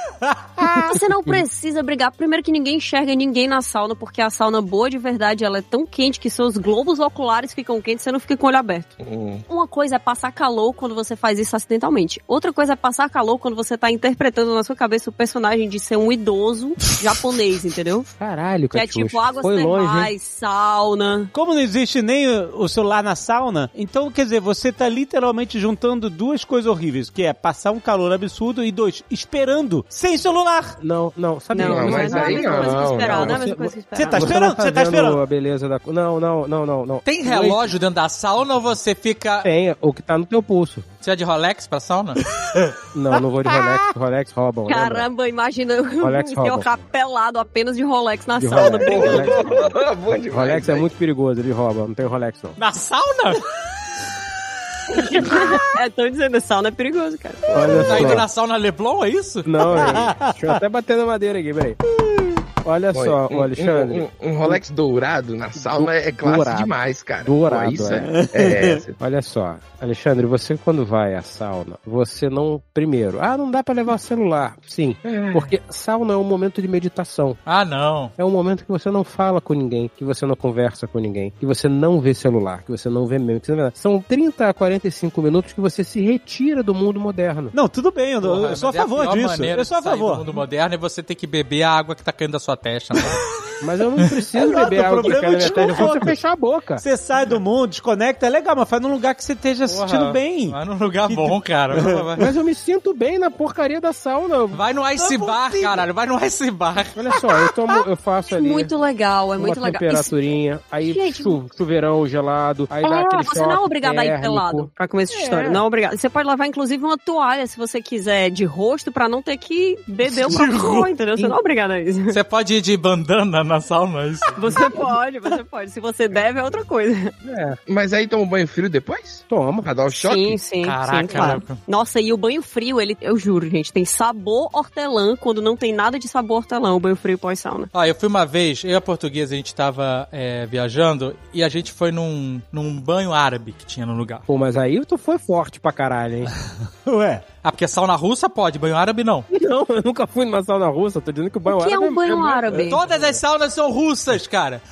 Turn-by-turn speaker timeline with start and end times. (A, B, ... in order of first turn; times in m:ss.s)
0:00.2-0:00.9 A
0:00.8-0:08.9 B
0:09.0-0:09.4 C
0:09.5-0:18.1 B
0:18.1-0:20.1 D
0:18.7-0:21.3 B
0:21.3-0:30.8 A
0:30.8-0:37.6 D
0:31.5-0:34.3 B
0:31.6-0:33.4 C
0:33.9-0:35.2 A
0:37.0-0:39.5 E
0:39.4-0:40.8 D
0:41.0-0:42.2 E
0:42.9-0:45.1 D
0:44.7-0:49.5 B
0:46.0-0:46.8 D
0:48.3-0:49.8 D
0:48.6-0:50.9 C
0:50.3-0:52.6 D
0:52.6-0:53.4 E
0:54.9-0:57.7 B
0:57.5-0:58.2 C
0:57.5-0:58.2 D
0:57.8-0:59.7 E
0:59.4-1:01.8 D
0:59.8-1:00.6 A
1:02.6-1:04.6 D
1:02.9-1:09.0 C
1:05.6-1:08.2 D
1:08.1-1:08.8 A
1:09.0-1:17.4 D
1:15.0-1:15.5 C
1:17.4-1:18.1 E
1:18.2-1:27.5 D
1:27.5-1:30.2 A
1:28.2-1:33.2 E
1:33.6-1:36.8 D
1:34.4-1:36.2 A
1:35.4-1:36.0 E
1:36.8-1:40.6 A
1:39.7-1:42.3 E
1:41.1-1:42.0 A
1:42.2-1:44.6 D
1:44.5-1:47.0 E
1:45.0-1:45.8 A
1:47.0-1:48.7 D
1:48.3-1:50.2 B
1:49.4-1:54.7 D
1:50.8-1:51.4 B
1:52.8-2:02.2 B
1:55.1-1:55.6 A
2:00.2-2:00.9 A
2:02.1-2:04.4 E
2:04.4-2:07.1 B
2:07.2-2:07.6 D
2:07.7-2:10.4 C
2:09.3-2:09.7 D
2:09.9-2:17.7 B
2:10.6-2:11.6 E
2:11.1-2:11.4 A
2:17.7-2:24.2 E
2:24.3-2:26.3 D
2:26.8-2:27.2 A
2:27.4-2:29.3 E
2:29.3-2:33.0 D
2:31.4-2:32.8 B
2:32.6-2:34.6 E